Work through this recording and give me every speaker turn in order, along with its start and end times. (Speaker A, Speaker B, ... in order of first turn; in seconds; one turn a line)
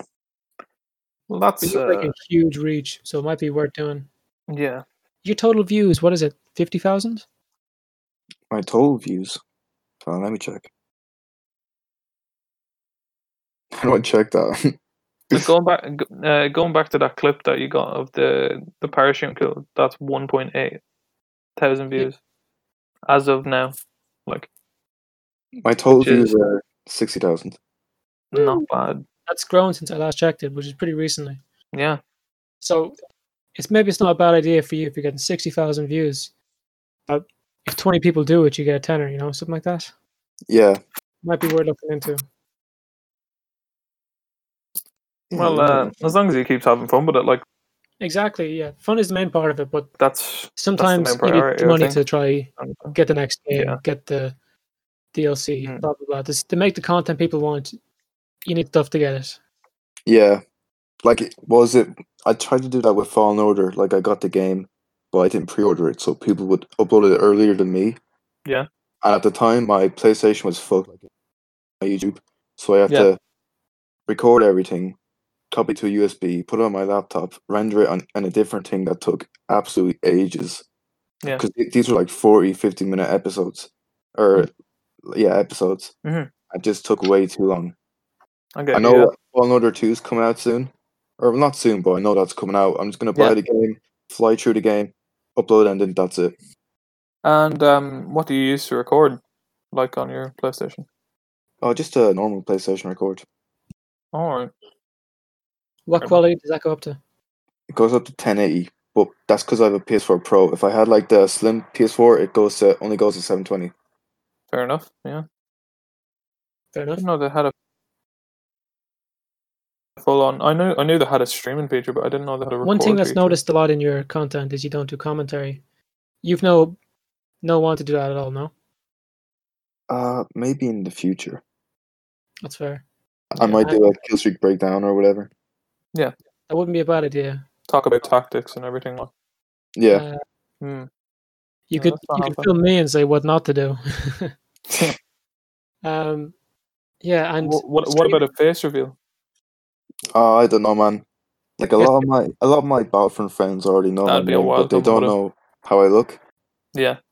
Speaker A: 1.3-2.1
Speaker B: 1.6-4.1
Speaker A: 4.5-4.8
Speaker B: 5.2-7.2
Speaker C: 8.5-9.4
Speaker C: 10.0-10.7
Speaker C: 13.8-14.7
Speaker A: 15.3-20.8
Speaker A: 21.6-22.2
Speaker A: 23.1-23.7
Speaker C: 25.6-27.6
Speaker A: 26.0-26.3
Speaker A: 28.3-29.0
Speaker B: 28.3-28.7
Speaker B: 29.3-31.4
Speaker A: 31.7-32.0
Speaker B: 32.6-32.9
Speaker B: 33.5-36.3
Speaker B: 37.1-39.9
Speaker C: 40.5-40.8
Speaker B: 41.2-42.2
Speaker C: 45.3-46.1
Speaker A: 45.3-47.4
Speaker B: 48.0-49.9
Speaker A: 50.0-52.0
Speaker B: 50.5-54.3
Speaker A: 52.6-52.9
Speaker A: 53.5-53.8
Speaker B: 55.1-57.8
Speaker B: 58.5-59.4
Speaker C: 60.0-60.4
Speaker C: 61.0-68.0
Speaker C: 69.0-71.0
Speaker C: 71.8-73.2
Speaker C: 74.1-75.0
Speaker C: 75.5-80.6
Speaker C: 81.3-84.5
Speaker C: 85.0-85.9
Speaker A: 86.0-86.3
Speaker C: 86.5-87.7
Speaker A: 88.5-89.1
Speaker C: 88.7-96.3
Speaker A: 97.2-99.2
Speaker A: 99.7-100.8
Speaker C: 101.6-103.2
Speaker A: 104.1-104.5
Speaker B: 105.9-107.0
Speaker C: 107.7-113.7
Speaker A: 114.5-115.2
Speaker B: 116.7-117.0
Speaker A: 117.0-117.5
Speaker A: 120.0-123.4
Speaker B: 122.6-125.6
Speaker B: 126.2-126.8
Speaker B: 127.4-128.5
Speaker C: 129.9-131.4
Speaker B: 132.4-132.8
Speaker C: 133.3-135.3
Speaker B: 133.4-133.8
Speaker B: 136.5-137.4
Speaker A: 137.7-139.1
Speaker C: 139.8-140.0
Speaker B: 139.9-140.2
Speaker A: 140.6-140.9
Speaker B: 141.7-144.3
Speaker A: 141.7-142.5
Speaker B: 145.8-146.3
Speaker B: 147.0-148.2
Speaker A: 147.4-148.9
Speaker C: 150.1-151.0
Speaker C: 151.6-156.2
Speaker A: 154.1-155.1